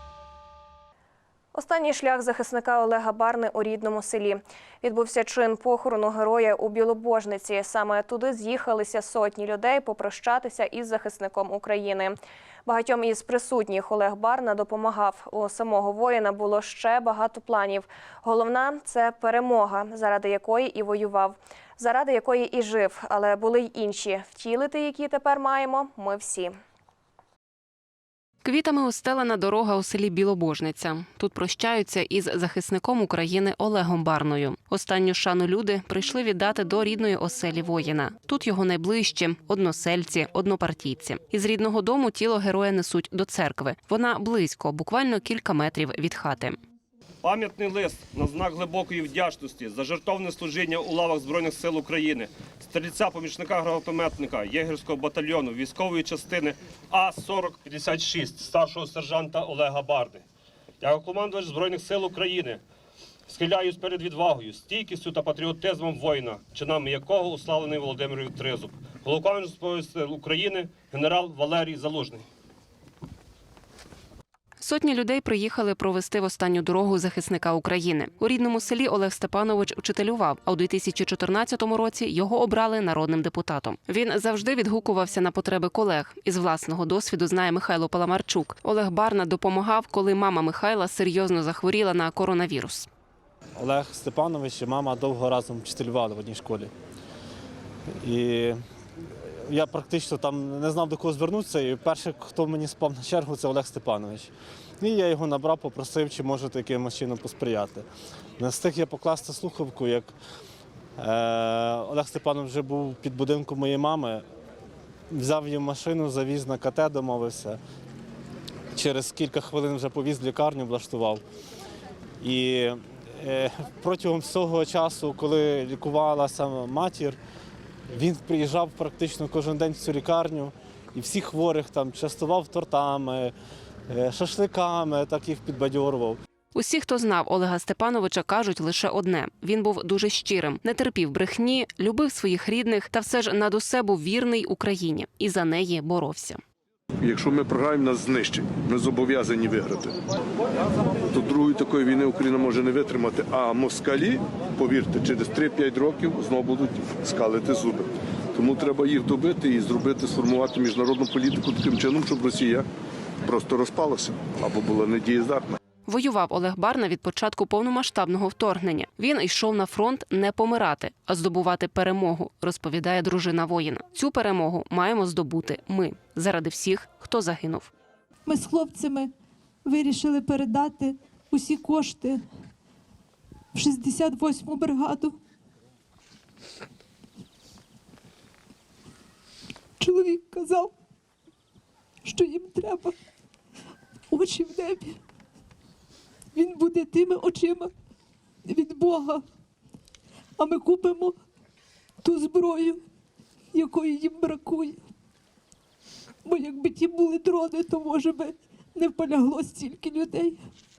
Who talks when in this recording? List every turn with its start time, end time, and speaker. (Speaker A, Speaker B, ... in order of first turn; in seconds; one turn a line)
Speaker A: 1.5-26.5
Speaker B: 28.4-46.6
Speaker C: 47.2-60.2
Speaker C: 60.8-62.6
Speaker C: 63.3-72.2
Speaker B: 74.6-92.9
Speaker D: 93.6-96.7
Speaker D: 98.0-98.6
Speaker D: 99.4-104.3
Speaker D: 104.8-107.8
Speaker D: 108.4-110.1
Speaker D: 111.0-114.2
Speaker D: 115.1-117.6
Speaker D: 118.7-121.2
Speaker D: 122.2-127.2
Speaker D: 127.9-133.3
Speaker D: 133.9-136.2
Speaker B: 136.5-146.4
Speaker E: 147.0-149.9
Speaker E: 151.1-162.7
Speaker E: 163.2-165.6
Speaker B: 165.8-177.7
Speaker F: 178.3-179.1
Speaker F: 179.7-182.2
Speaker F: 183.5-185.2
Speaker F: 189.8-190.7
Speaker F: 192.0-192.9
Speaker F: 194.1-195.0
Speaker F: 196.3-197.7
Speaker F: 198.4-199.2
Speaker F: 200.4-201.2
Speaker F: 202.0-202.8
Speaker F: 203.5-204.8
Speaker F: 206.2-210.4